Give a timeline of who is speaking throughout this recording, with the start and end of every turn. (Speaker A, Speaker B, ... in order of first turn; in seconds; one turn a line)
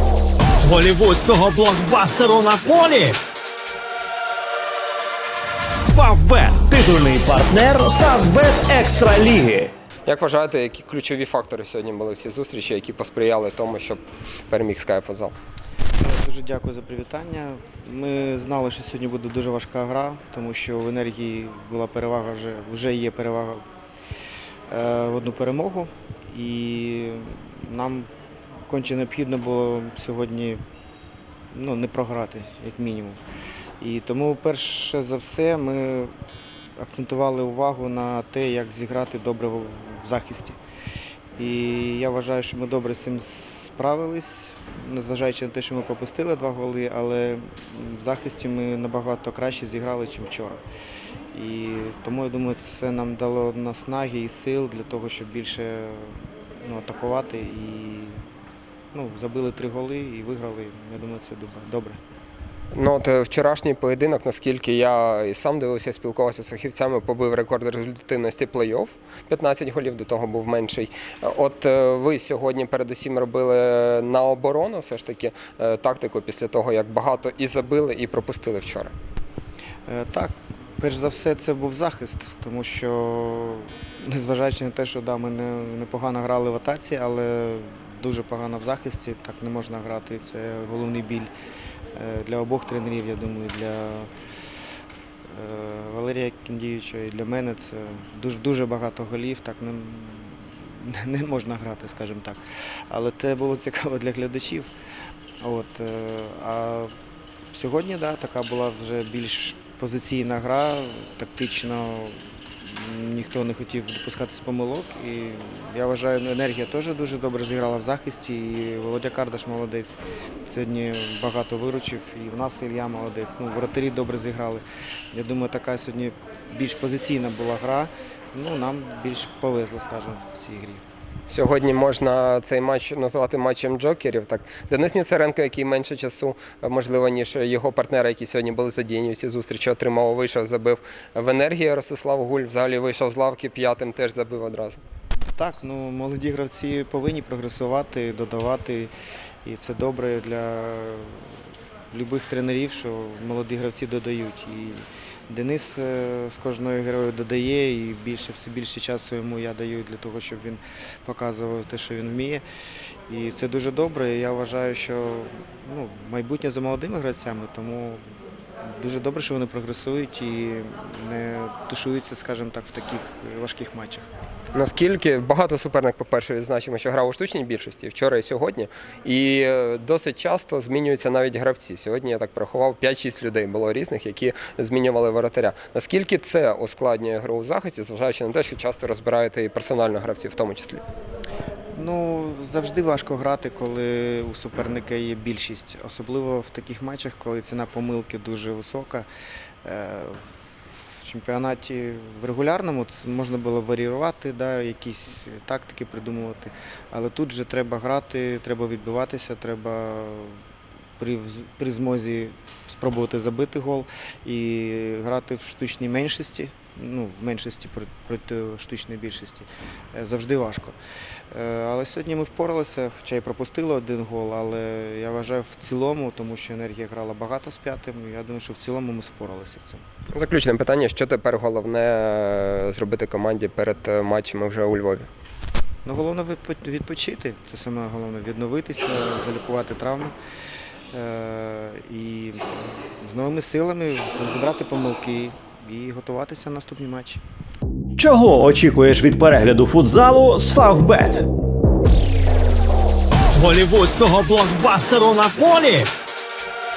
Speaker A: 0.6-3.2
Speaker A: 5.9-6.5
Speaker B: 6.3-9.7
Speaker C: 10.1-15.3
Speaker D: 16.0-23.6
Speaker D: 24.7-28.1
Speaker D: 28.7-30.6
Speaker D: 31.5-33.2
Speaker D: 33.8-36.1
Speaker D: 36.8-40.6
Speaker D: 41.4-50.6
Speaker D: 51.3-58.2
Speaker D: 58.9-62.0
Speaker C: 62.7-78.9
Speaker D: 79.9-91.3
Speaker D: 91.9-94.1
Speaker D: 95.3-104.7
Speaker D: 105.4-106.9
Speaker D: 107.5-130.8
Speaker C: 131.3-144.8
Speaker D: 145.3-148.9
Speaker D: 149.4-151.3
Speaker D: 151.9-162.4
Speaker D: 163.1-168.0
Speaker D: 168.7-174.1
Speaker C: 174.5-190.8
Speaker D: 191.7-199.1
Speaker D: 199.6-200.2
Speaker D: 201.0-210.3
Speaker D: 211.0-220.8
Speaker D: 221.3-229.8
Speaker C: 230.1-235.1
Speaker D: 235.8-240.1
Speaker D: 240.9-242.4
Speaker D: 243.0-247.2
Speaker B: 248.0-251.2
Speaker A: 253.3-255.9